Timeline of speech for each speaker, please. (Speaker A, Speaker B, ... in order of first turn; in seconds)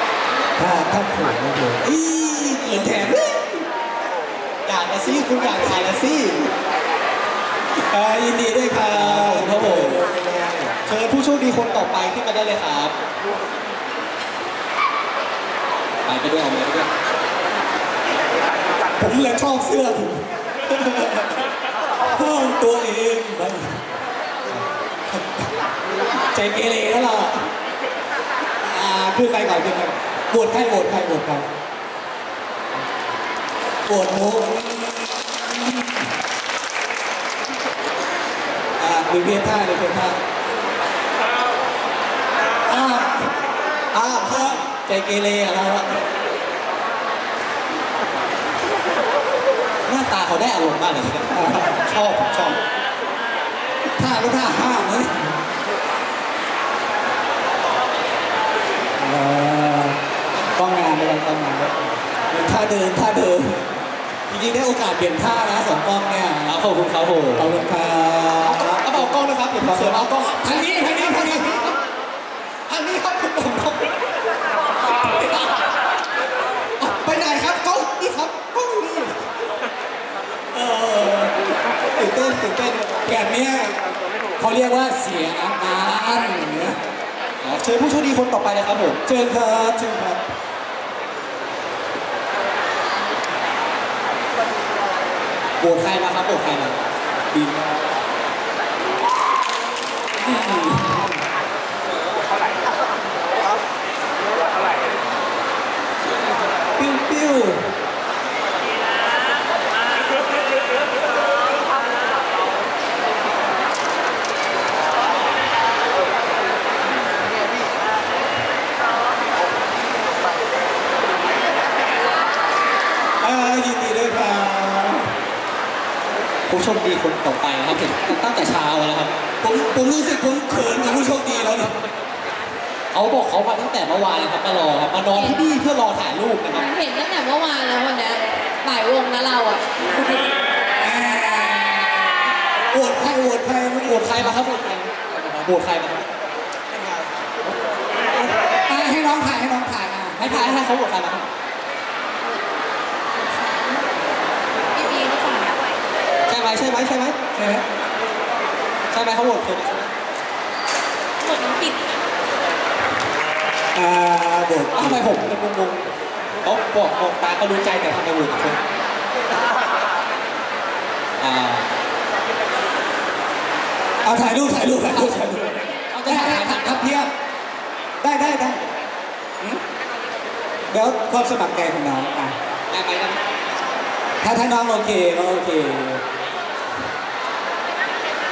Speaker A: 0.6-3.4, 7.9-10.8, 19.0-20.2, 22.1-23.7, 25.1-25.5, 26.3-27.4, 28.6-31.5, 33.9-36.0, 38.8-40.2, 42.7-43.4, 44.2-45.9, 51.3-51.8, 54.0-55.4, 59.0-60.0, 60.6-63.7, 64.3-66.6, 67.4-71.6, 80.5-81.3, 83.1-83.8, 84.4-86.8, 89.0-90.2, 97.3-97.7, 100.2-101.2, 106.8-107.7, 123.2-125.1, 129.4-131.7, 140.8-144.4, 148.1-150.6, 157.3-157.7, 163.7-165.1, 174.0-177.1, 178.0-178.6, 180.7-182.4, 184.2-186.0
Speaker B: 4.7-6.5, 8.9-10.1, 10.8-12.9, 16.1-16.9, 43.9-44.7, 49.9-52.6, 66.5-67.5, 68.4-71.7, 72.7-73.9, 75.2-75.4, 76.8-79.2, 82.0-83.1, 87.4-89.0, 95.6-96.8, 126.5-129.1, 132.9-136.7, 143.8-146.1, 150.2-151.3, 156.3-157.2, 158.9-159.9, 164.8-165.9, 166.4-168.6, 171.2-171.7, 174.9-175.3, 175.9-176.9, 182.7-183.2
Speaker C: 135.2-135.4, 136.5-139.7, 153.1-153.9, 154.7-155.7, 161.2-162.0